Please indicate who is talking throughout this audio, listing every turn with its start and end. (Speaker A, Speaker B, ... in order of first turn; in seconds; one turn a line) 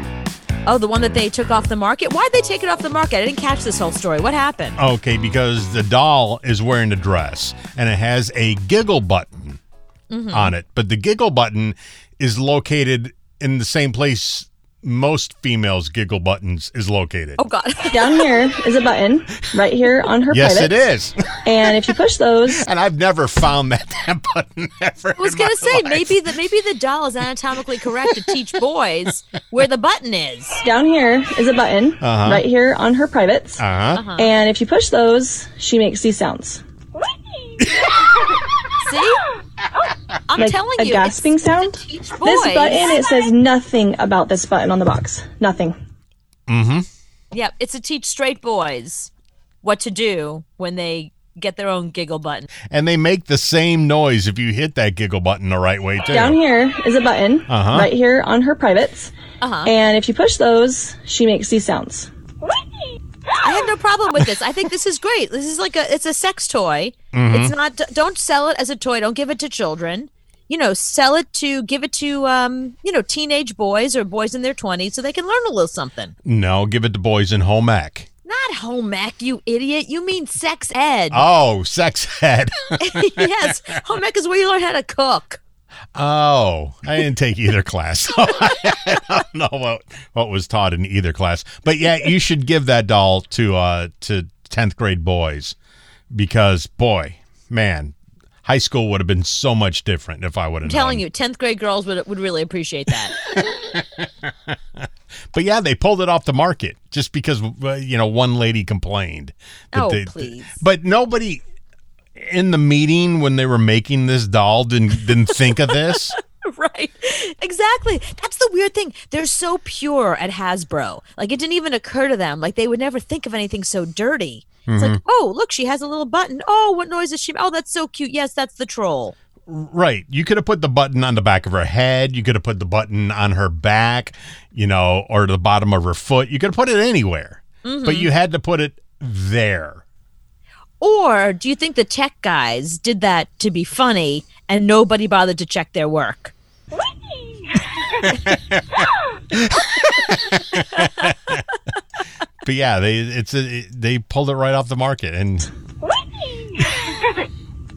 Speaker A: 0.6-4.8
Speaker B: 4.8-9.6
Speaker A: 10.1-10.5
Speaker B: 10.3-17.4
Speaker A: 17.4-18.2
Speaker C: 17.9-20.8
Speaker B: 20.3-21.4
Speaker C: 21.4-22.7
Speaker B: 22.5-26.2
Speaker A: 25.2-30.6
Speaker B: 28.0-28.4
Speaker C: 30.6-33.6
Speaker B: 32.0-32.4
Speaker B: 33.6-34.0
Speaker A: 33.9-34.3
Speaker C: 34.2-36.6
Speaker A: 38.8-39.2
Speaker A: 40.3-43.0
Speaker C: 40.4-45.7
Speaker B: 46.5-46.9
Speaker A: 47.3-49.1
Speaker A: 49.6-52.5
Speaker B: 52.7-56.4
Speaker C: 56.1-59.1
Speaker B: 57.5-57.9
Speaker A: 59.4-59.7
Speaker C: 59.6-62.1
Speaker A: 63.4-76.1
Speaker B: 67.1-67.5
Speaker B: 76.2-78.1
Speaker A: 78.2-81.2
Speaker B: 81.1-83.3
Speaker A: 82.8-85.4
Speaker B: 85.9-95.6
Speaker B: 96.1-97.9
Speaker B: 98.4-101.0
Speaker A: 100.7-103.2
Speaker B: 103.3-104.5
Speaker B: 105.3-111.4
Speaker A: 109.7-110.6
Speaker B: 112.2-116.2
Speaker A: 115.7-129.1
Speaker B: 124.7-125.0
Speaker B: 129.5-139.8
Speaker A: 137.6-138.1
Speaker A: 140.8-146.3
Speaker B: 148.1-148.8
Speaker B: 149.3-151.4
Speaker B: 152.4-155.5